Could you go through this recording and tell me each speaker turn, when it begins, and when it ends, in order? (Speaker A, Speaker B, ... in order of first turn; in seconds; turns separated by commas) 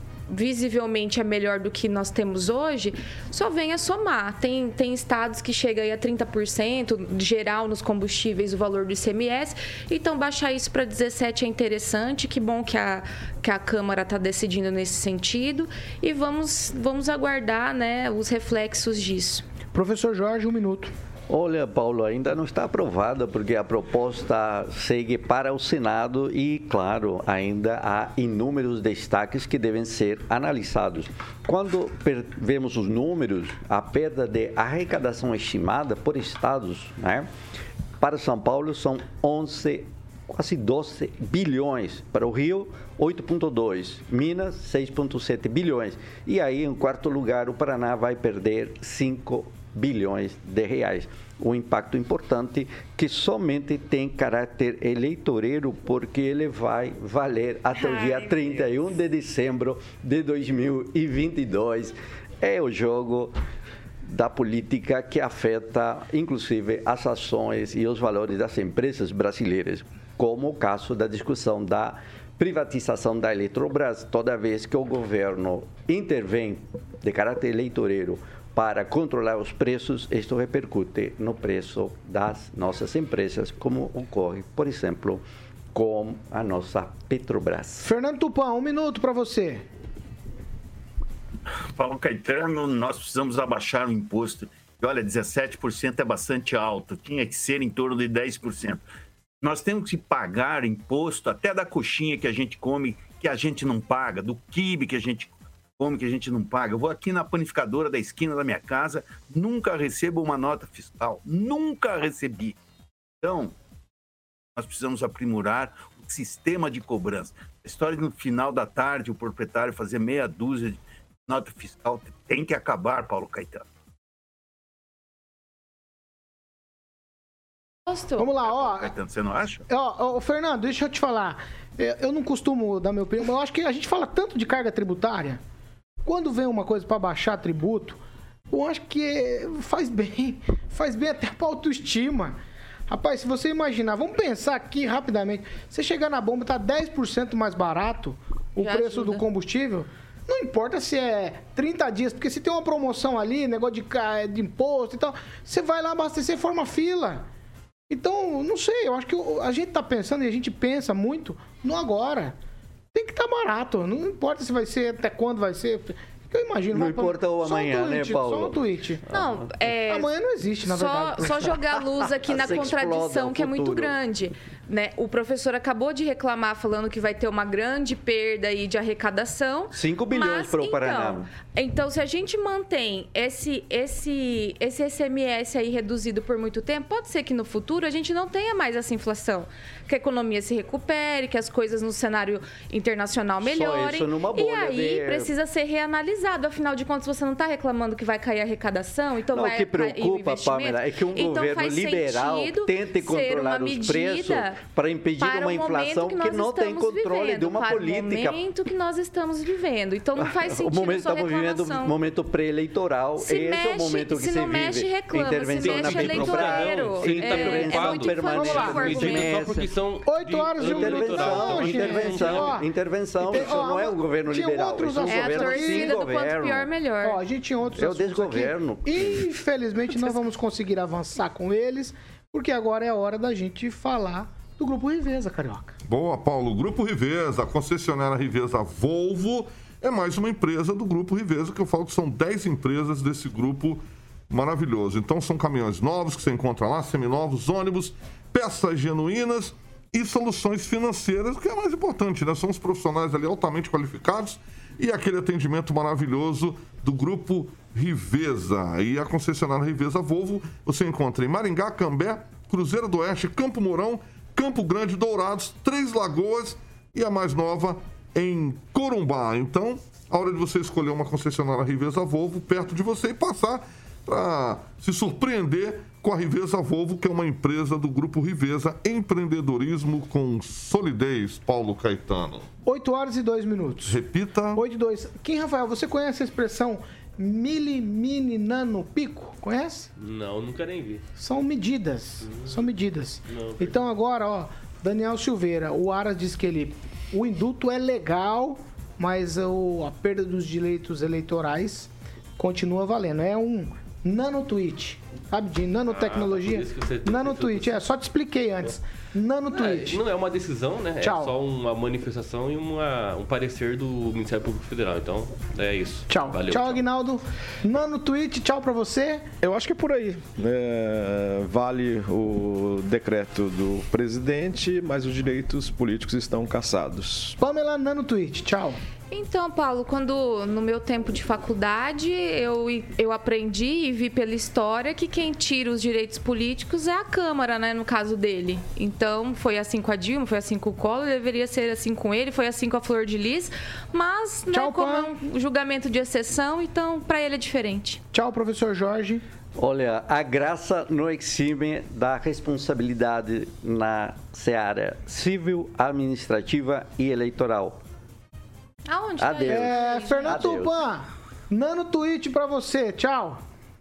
Speaker A: 0.3-19.4, Speaker B: 19.7-20.9, Speaker C: 21.3-37.3, Speaker C: 38.0-63.4, Speaker A: 57.8-58.6, Speaker C: 64.0-85.2, Speaker C: 85.7-87.9, Speaker B: 87.8-89.6, Speaker D: 91.7-98.8, Speaker D: 99.4-112.6, Speaker D: 113.2-113.5, Speaker D: 114.5-123.6, Speaker A: 127.9-128.3, Speaker B: 128.2-128.9, Speaker D: 128.4-129.6, Speaker B: 129.7-135.4, Speaker B: 136.0-138.0, Speaker B: 138.5-142.4, Speaker B: 142.9-157.2, Speaker A: 148.6-149.2, Speaker B: 157.9-162.3, Speaker B: 162.9-169.0, Speaker C: 166.7-168.6, Speaker A: 169.1-170.1, Speaker B: 169.9-171.6, Speaker A: 170.6-204.6, Speaker C: 172.2-173.9, Speaker C: 179.7-181.3, Speaker C: 193.4-195.3, Speaker C: 199.3-208.4, Speaker A: 205.2-212.0, Speaker C: 210.2-219.7, Speaker A: 213.2-219.4, Speaker E: 215.6-222.6, Speaker B: 218.3-218.8, Speaker B: 220.1-222.7, Speaker C: 220.6-226.7, Speaker B: 223.2-226.0, Speaker A: 225.0-227.2, Speaker B: 227.0-235.8, Speaker C: 227.7-229.2, Speaker F: 235.9-282.5, Speaker B: 282.6-284.0, Speaker F: 283.9-284.6, Speaker B: 284.6-289.9, Speaker E: 290.0-291.0, Speaker B: 291.2-310.0, Speaker E: 292.2-292.7, Speaker E: 293.3-293.9, Speaker E: 305.9-307.8, Speaker E: 309.5-316.8, Speaker B: 311.0-311.3, Speaker B: 316.1-319.2, Speaker G: 319.4-327.4, Speaker B: 327.4-328.8, Speaker A: 329.1-348.0, Speaker B: 344.5-345.1, Speaker B: 348.1-349.2, Speaker C: 349.6-357.8, Speaker A: 358.9-360.5, Speaker C: 359.2-360.7, Speaker B: 359.5-363.4